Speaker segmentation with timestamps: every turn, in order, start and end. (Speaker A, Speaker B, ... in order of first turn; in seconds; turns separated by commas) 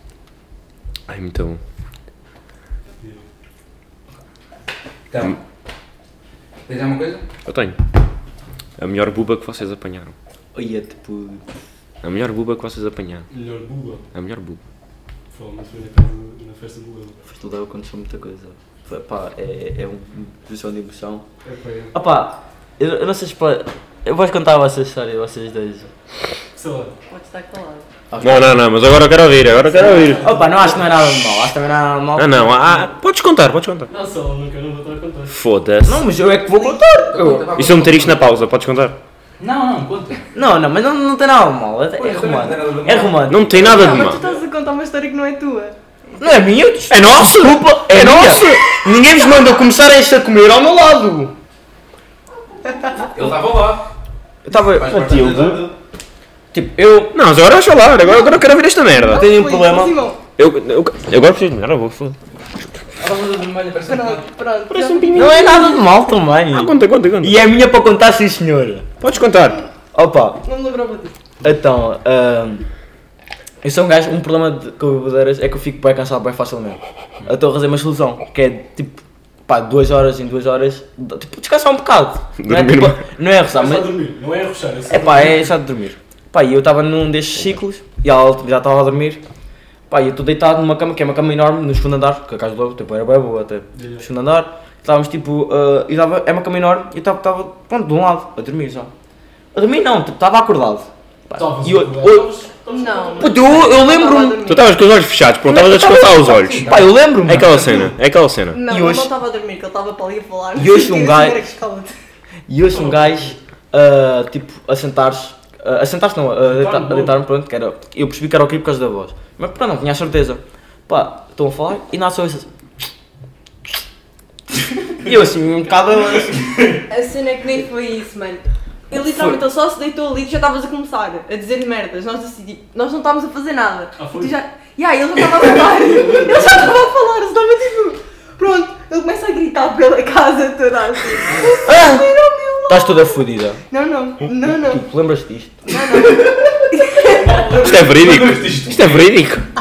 Speaker A: 1.1-1.6, Speaker B: 5.1-5.4, Speaker B: 6.7-7.3, Speaker A: 7.5-7.8, Speaker A: 8.8-10.1, Speaker C: 10.5-11.4, Speaker A: 12.0-13.3, Speaker D: 13.3-14.0, Speaker A: 14.1-14.6, Speaker D: 15.3-17.2, Speaker C: 17.2-21.3, Speaker D: 21.4-21.9, Speaker C: 21.9-25.9, Speaker D: 26.6-26.9, Speaker E: 27.1-27.9, Speaker C: 28.1-28.6, Speaker A: 28.2-30.3, Speaker D: 29.6-30.9, Speaker C: 30.1-32.7, Speaker A: 32.1-33.9, Speaker D: 33.9-35.4, Speaker A: 35.3-36.1, Speaker C: 35.9-37.5, Speaker B: 36.9-38.4, Speaker A: 37.6-39.0, Speaker B: 39.4-40.3, Speaker C: 40.3-43.7, Speaker B: 42.0-44.1, Speaker A: 43.3-44.2, Speaker E: 43.6-45.8, Speaker D: 44.0-44.4, Speaker C: 46.2-51.4, Speaker A: 46.9-48.9, Speaker E: 52.6-53.3, Speaker B: 53.1-53.9, Speaker C: 54.5-55.7, Speaker B: 54.5-55.7, Speaker C: 56.5-57.2, Speaker A: 57.1-59.3, Speaker E: 58.0-60.2, Speaker C: 59.1-60.0, Speaker A: 60.4-62.2, Speaker B: 63.0-64.3, Speaker E: 63.9-65.9, Speaker A: 64.7-65.7, Speaker C: 65.1-68.9, Speaker A: 66.5-67.4, Speaker A: 69.0-69.6, Speaker C: 69.9-70.4, Speaker E: 70.4-71.1, Speaker C: 71.4-72.7, Speaker C: 73.6-83.9, Speaker A: 82.4-83.0, Speaker D: 83.5-85.5, Speaker C: 84.9-89.2, Speaker C: 89.9-98.9, Speaker D: 93.7-94.0, Speaker C: 99.5-102.3, Speaker D: 101.3-103.8, Speaker E: 102.7-104.8, Speaker C: 103.2-104.4, Speaker A: 104.4-106.7, Speaker C: 105.5-107.8, Speaker B: 106.5-107.9, Speaker A: 107.3-108.6, Speaker E: 108.5-111.9, Speaker C: 108.7-109.1, Speaker C: 110.5-111.5, Speaker C: 112.5-122.5, Speaker D: 112.7-113.4, Speaker D: 116.4-117.2, Speaker C: 125.0-126.5, Speaker B: 126.4-126.8, Speaker E: 126.9-144.8, Speaker D: 134.0-134.3, Speaker D: 135.7-136.7, Speaker D: 141.3-141.6, Speaker C: 141.6-142.1, Speaker C: 142.7-143.6, Speaker C: 144.6-145.7, Speaker E: 145.7-147.5, Speaker B: 146.0-146.3, Speaker D: 147.0-147.9, Speaker B: 147.5-149.1, Speaker A: 147.6-149.5